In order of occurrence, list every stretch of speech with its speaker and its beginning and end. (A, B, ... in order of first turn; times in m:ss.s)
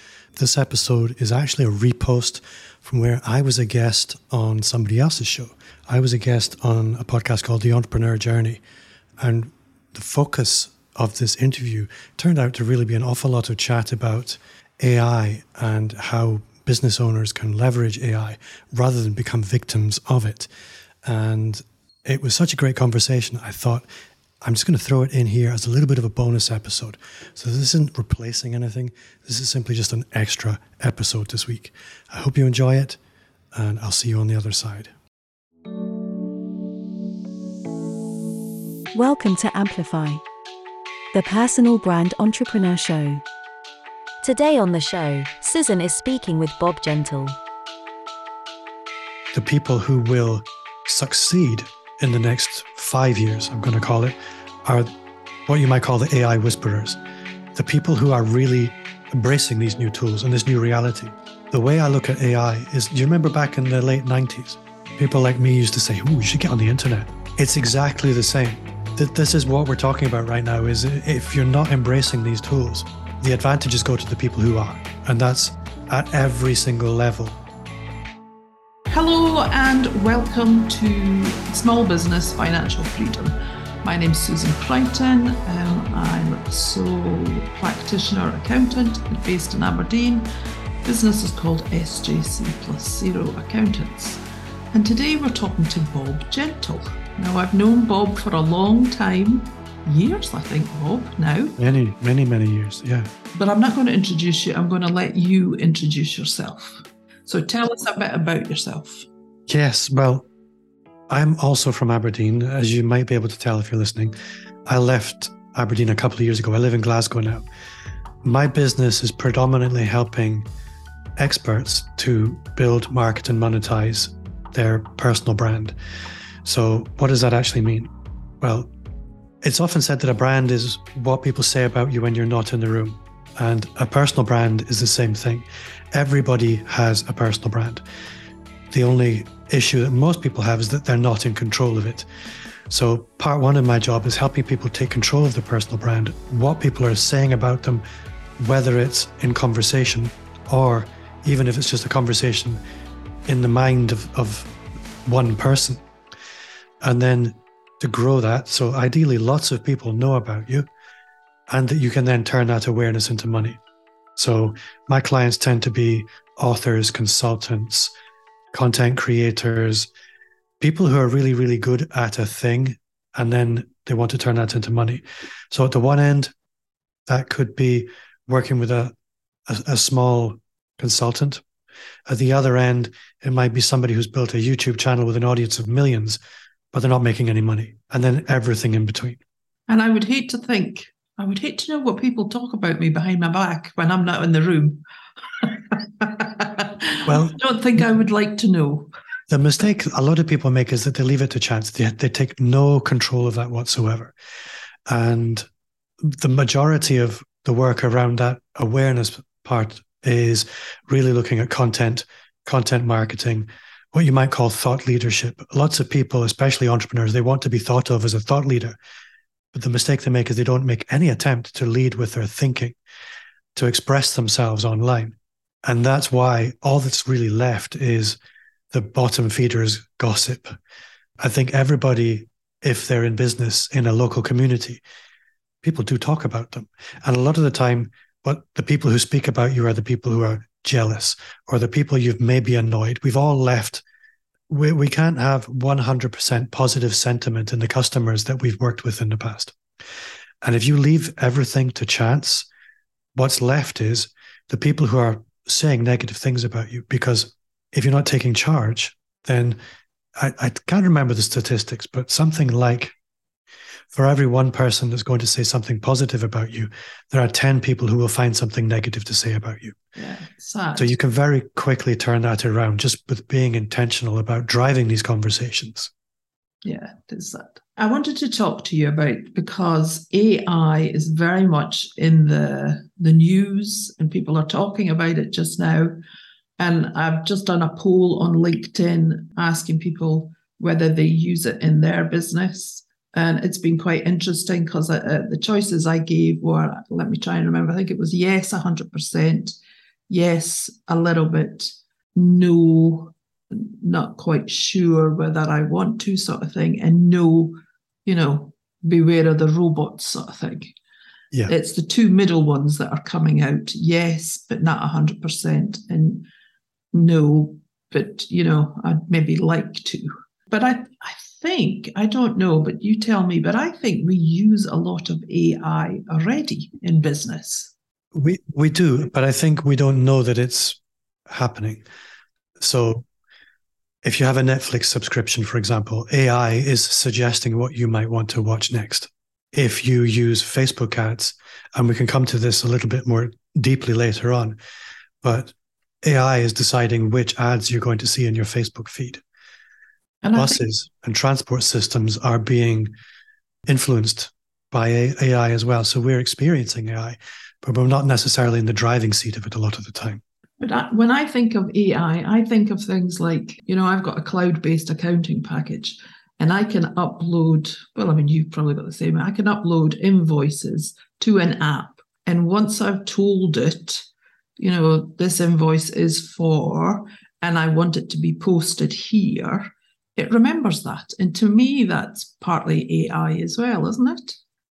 0:00.4-0:08.6 A
0:09.2-0:20.5 A
0:21.0-0:23.8 A
0:24.4-0:33.0 A
0:33.5-0:34.9 A
0:38.9-0:40.2 B
0:41.1-0:43.2 B
0:44.2-0:47.4 B
0:49.3-0:54.9 A
0:55.5-0:57.0 A
0:57.5-1:17.4 A
1:18.9-1:30.2 C
1:30.8-1:34.2 C
1:34.7-1:41.6 C
1:41.6-1:43.1 A
1:43.3-1:49.0 C
1:49.5-1:50.3 A
1:51.1-1:54.1 A
1:54.6-1:57.4 A
1:58.2-2:00.5 A
2:01.2-2:05.7 A
2:06.4-2:08.7 A
2:09.4-2:17.8 A
2:18.7-2:22.0 A
2:22.7-2:27.8 A
2:28.4-2:32.6 A
2:33.3-2:34.5 A
2:35.0-2:35.8 A
2:36.8-2:40.7 A
2:41.5-2:43.6 A
2:44.2-2:47.9 A
2:48.5-2:49.9 A
2:50.6-2:56.3 A
2:57.1-2:58.9 A
2:59.5-3:01.4 A
3:02.1-3:06.2 A
3:06.7-3:09.2 A
3:09.7-3:18.9 C
3:17.0-3:17.8 A
3:19.3-3:24.1 A
3:24.9-3:25.5 A
3:26.0-3:38.8 A
3:39.5-3:42.8 A
3:43.5-3:48.2 A
3:48.7-3:50.5 A
3:51.2-3:54.8 A
3:55.6-4:03.8 A
4:04.5-4:09.6 A
4:10.4-4:12.4 A
4:13.1-4:19.6 A
4:20.2-4:22.9 A
4:23.9-4:29.8 A
4:30.0-4:30.9 C
4:30.8-4:35.9 A
4:36.6-4:45.9 C
4:46.6-4:59.6 C
5:00.1-5:10.7 C
5:11.5-5:16.3 C
5:16.9-5:27.7 C
5:28.1-5:31.8 A
5:32.6-5:33.1 A
5:34.0-5:44.6 A
5:45.2-5:49.2 A
5:50.2-5:50.6 C
5:50.3-5:52.9 A
5:53.7-6:00.2 A
6:00.6-6:14.1 C
6:14.6-6:24.4 C